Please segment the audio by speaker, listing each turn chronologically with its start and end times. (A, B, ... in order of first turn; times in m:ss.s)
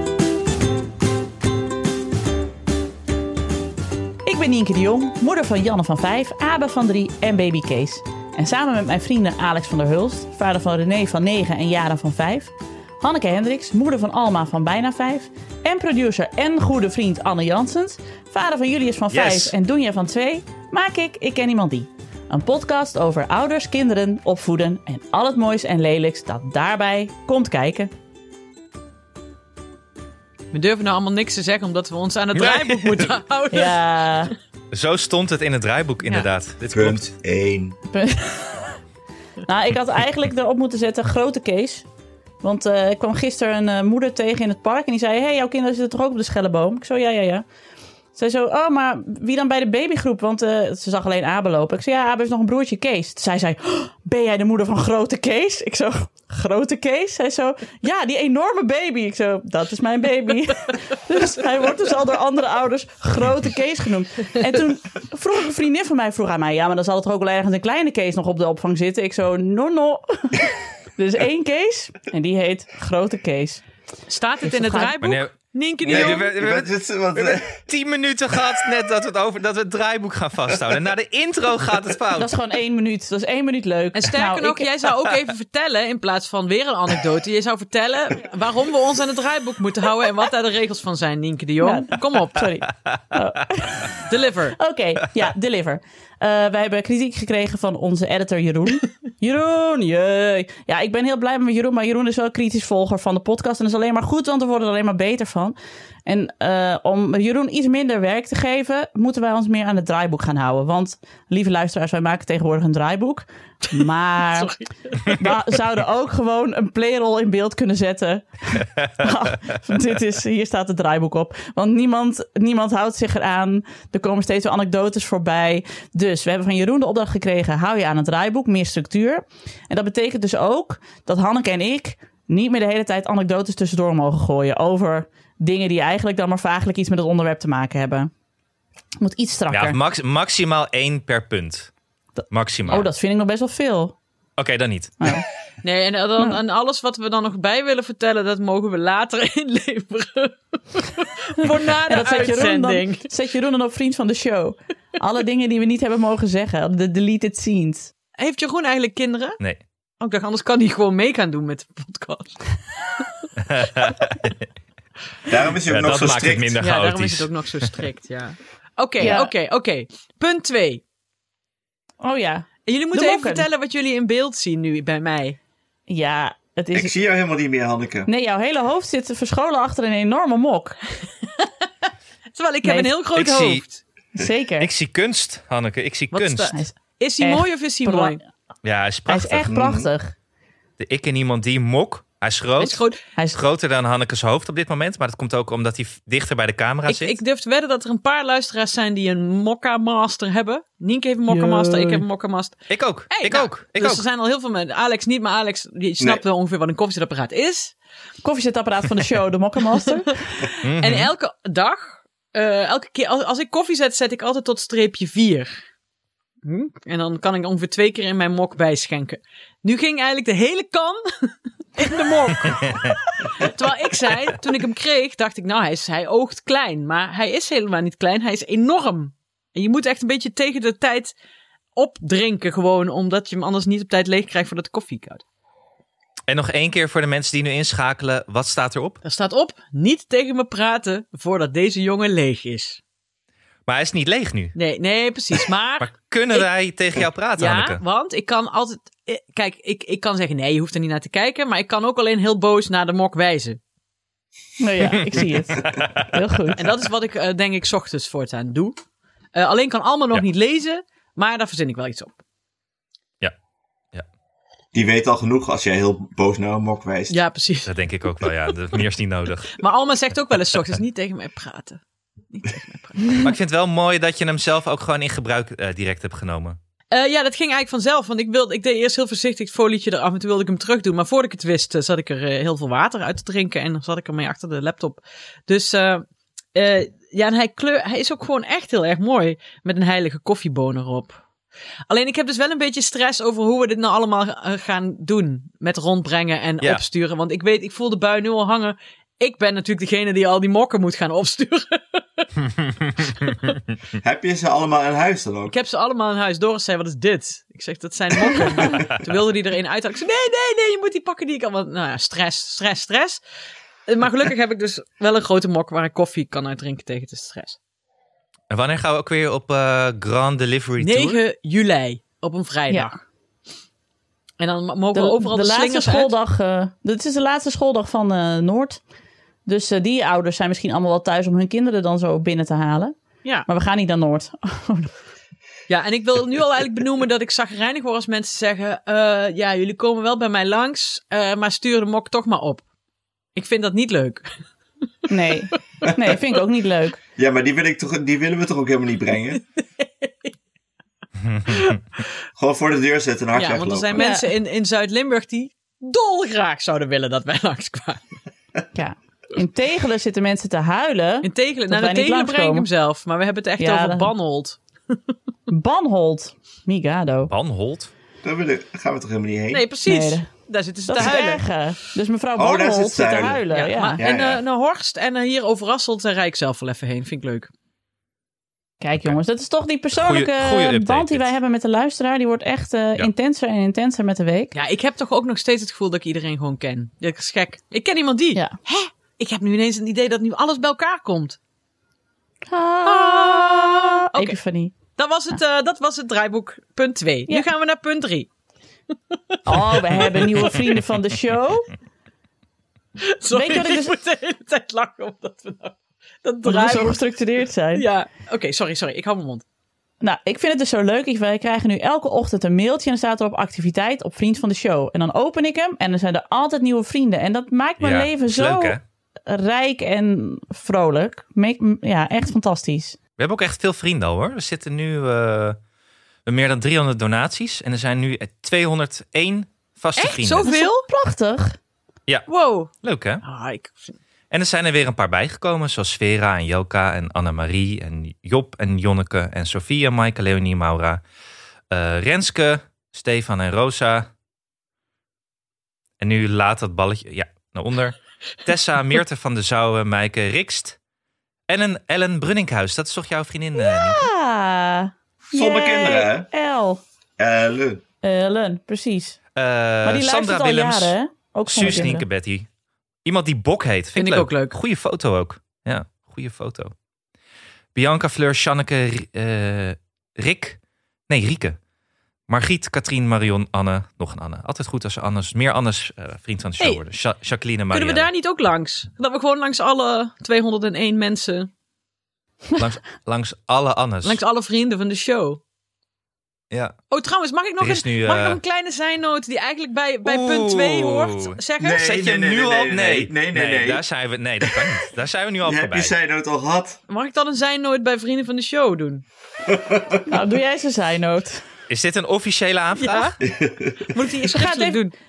0:04.2-0:27.9 A
0:19.1-0:19.6 B
0:30.5-0:33.8 C
0:32.4-0:33.1 B
0:33.5-0:34.3 A
0:34.7-0:37.1 B
0:36.7-0:37.8 D
0:37.9-0:38.8 A
0:39.4-0:41.9 A
0:42.4-0:47.4 A
0:48.2-1:13.6 A
1:14.1-1:16.3 C
1:14.5-1:15.0 A
1:15.0-1:22.3 B
1:15.9-1:17.6 D
1:22.2-1:24.7 A
1:24.0-1:32.5 C
1:31.6-1:34.0 A
1:34.1-1:34.6 C
1:34.6-2:18.1 A
1:53.7-1:55.3 C
2:19.0-2:19.8 A
2:19.5-2:21.7 B
2:22.3-2:22.9 B
2:22.7-2:24.0 A
2:24.4-2:25.2 B
2:25.6-2:33.1 C
2:31.9-2:37.9 A
2:38.2-2:39.4 C
2:40.0-2:42.4 C
2:43.0-2:43.2 C
2:43.4-2:44.4 B
2:45.3-2:46.6 D
2:45.6-2:47.3 B
2:46.6-2:50.8 C
2:49.0-2:49.3 A
2:52.0-2:53.5 A
2:52.7-2:55.4 C
2:55.9-2:56.9 A
2:56.7-2:58.1 D
2:58.1-3:00.8 A
3:01.2-3:01.5 C
3:02.3-3:03.8 C
3:02.6-3:02.9 A
3:03.1-3:03.6 B
3:04.2-3:04.7 A
3:04.6-3:06.6 B
3:06.1-3:08.2 C
3:06.5-3:08.2 A
3:08.6-3:09.5 B
3:09.1-3:10.1 A
3:09.5-3:09.9 D
3:10.8-3:12.8 B
3:12.6-3:13.0 C
3:13.3-3:17.2 B
3:16.9-3:27.8 C
3:21.3-3:22.0 A
3:22.7-3:24.0 B
3:28.2-3:30.2 A
3:30.2-3:35.5 C
3:30.6-3:31.1 B
3:36.4-3:51.2 C
3:42.7-3:43.0 B
3:51.8-3:55.2 C
3:56.3-3:59.0 B
3:59.0-4:02.8 C
4:03.7-4:04.6 B
4:04.6-4:06.5 C
4:05.8-4:07.8 B
4:07.4-4:13.6 C
4:14.6-4:16.7 A
4:14.9-4:16.0 B
4:16.6-4:18.8 C
4:19.4-4:22.2 C
4:24.7-4:27.2 D
4:27.1-4:27.7 C
4:27.7-4:29.6 B
4:29.6-4:31.8 C
4:32.3-4:33.2 C
4:33.1-4:36.6 B
4:36.9-4:51.2 C
4:51.9-5:02.3 C
5:04.0-5:05.5 D
5:05.5-5:13.2 C
5:13.9-5:17.6 C
5:18.5-5:21.2 B
5:20.8-5:23.0 C
5:24.4-5:26.1 C
5:24.9-5:28.8 A
5:29.5-5:34.9 A
5:35.7-5:42.6 C
5:43.4-5:44.4 C
5:45.0-5:45.6 C
5:45.1-5:47.0 A
5:47.2-5:49.4 D
5:49.8-5:50.3 C
5:51.2-5:51.8 B
5:51.5-5:52.0 C
5:52.4-5:54.1 D
5:53.3-5:58.1 C
5:54.0-5:54.3 A
5:58.7-6:02.7 A
6:01.2-6:05.0 C
6:03.6-6:04.1 A
6:05.5-6:07.3 A
6:07.3-6:07.9 B
6:08.2-6:09.7 D
6:09.5-6:11.4 C
6:09.8-6:10.3 A
6:10.9-6:14.0 A
6:12.4-6:14.4 D
6:13.5-6:17.5 C
6:18.8-6:24.5 A
6:20.0-6:21.3 B
6:24.5-6:31.4 C
6:32.5-6:34.8 A
6:32.9-6:34.4 C
6:35.0-6:38.3 C
6:39.1-6:40.6 C
6:39.5-6:41.7 A
6:43.0-6:47.0 C
6:43.3-6:44.0 A
6:46.4-6:47.9 A
6:47.7-6:49.4 C
6:50.0-6:58.8 A
6:57.8-6:58.8 B
6:59.3-7:03.0 A
7:03.2-7:05.6 B
7:06.3-7:10.5 B
7:10.0-7:10.9 C
7:10.5-7:11.6 A
7:12.3-7:12.7 C
7:12.8-7:13.2 B
7:13.2-7:14.0 C
7:14.3-7:21.0 B
7:21.7-7:24.1 B
7:26.0-7:30.8 B
7:31.5-7:34.1 B
7:33.6-7:36.8 A
7:35.3-7:36.3 D
7:37.2-7:37.8 D
7:38.0-7:39.2 A
7:39.4-7:41.0 B
7:39.8-7:42.1 A
7:41.5-7:42.5 B
7:43.0-7:46.7 B
7:44.0-7:44.6 C
7:47.8-7:51.6 B
7:52.3-7:58.1 B
7:57.7-8:01.5 C
8:02.6-8:04.2 B
8:04.0-8:05.4 C
8:06.5-8:06.8 B
8:06.9-8:11.8 C
8:07.6-8:08.4 B
8:10.0-8:15.9 B
8:11.6-8:13.8 D
8:14.4-8:14.7 D
8:15.4-8:16.8 D
8:16.9-8:19.0 C
8:19.4-8:20.0 D
8:20.1-8:21.4 A
8:21.7-8:23.2 B
8:22.8-8:23.2 C
8:23.2-8:23.9 D
8:23.9-8:24.9 C
8:24.3-8:24.8 A